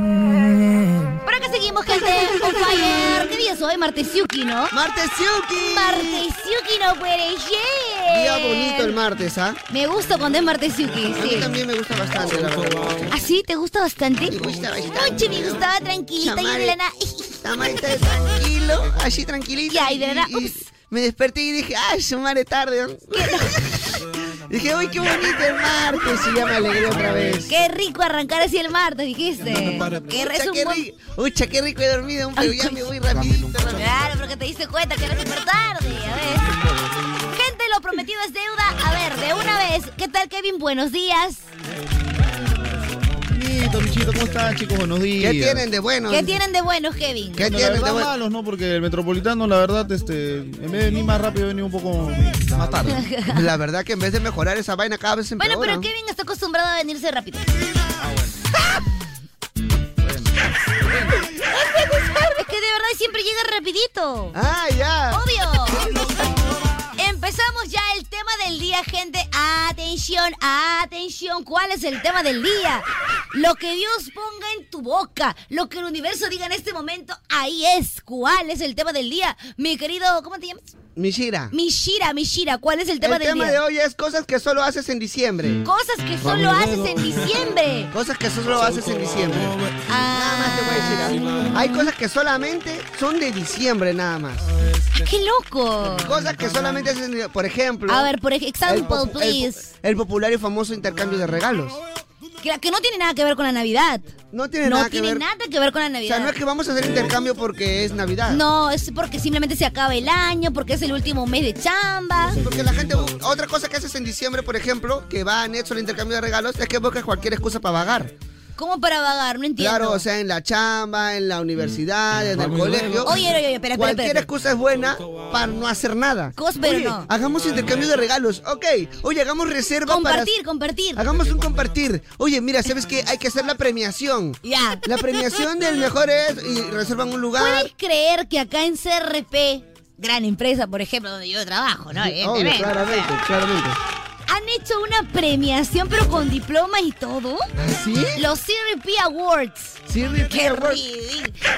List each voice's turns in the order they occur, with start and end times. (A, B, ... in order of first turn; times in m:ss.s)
0:01.2-0:04.7 A
0:04.7-0:06.2 B
0:05.6-0:09.0 A
0:08.1-0:09.6 B
0:09.7-0:11.5 A
0:11.1-0:13.1 B
0:13.1-0:14.4 A
0:14.2-0:15.6 B
0:15.0-0:17.4 A
0:16.2-0:16.8 B
0:17.4-0:23.9 B
0:19.7-0:20.7 A
0:23.1-0:23.5 A
0:24.5-0:27.5 B
0:27.5-0:30.8 A
0:29.9-0:34.0 B
0:32.4-0:32.8 A
0:33.7-0:36.6 A
0:37.3-0:41.4 A
0:43.3-0:45.7 C
0:45.2-0:46.4 B
0:46.1-0:47.7 A
0:47.4-0:48.1 B
0:47.4-0:53.0 C
0:52.9-0:53.4 A
0:53.2-0:55.9 B
0:55.4-0:57.5 A
0:58.0-0:58.4 C
1:00.0-1:01.1 C
1:01.5-1:04.3 A
1:04.3-1:05.2 B
1:05.1-1:06.0 A
1:07.0-1:20.7 A
1:21.0-1:21.5 B
1:21.5-1:23.6 A
1:23.0-1:25.6 B
1:25.6-1:27.9 A
1:27.9-1:29.6 B
1:29.9-1:31.2 A
1:30.1-1:34.5 B
1:34.9-1:36.2 A
1:36.0-1:38.1 B
1:37.9-1:39.7 A
1:38.6-1:41.8 B
1:42.4-1:44.1 A
1:44.3-1:45.2 B
1:44.6-1:46.3 A
1:46.0-1:48.4 B
1:48.3-1:52.4 A
1:52.3-1:58.1 B
1:58.6-2:00.0 A
1:59.6-2:03.2 B
2:03.0-2:04.3 A
2:03.7-2:10.3 B
2:06.4-2:07.1 A
2:09.9-2:11.0 A
2:11.0-2:17.7 B
2:14.4-2:14.8 A
2:17.4-2:23.1 A
2:21.9-2:23.8 B
2:24.3-2:27.5 A
2:27.6-2:28.2 B
2:28.2-2:31.4 A
2:29.9-2:30.8 B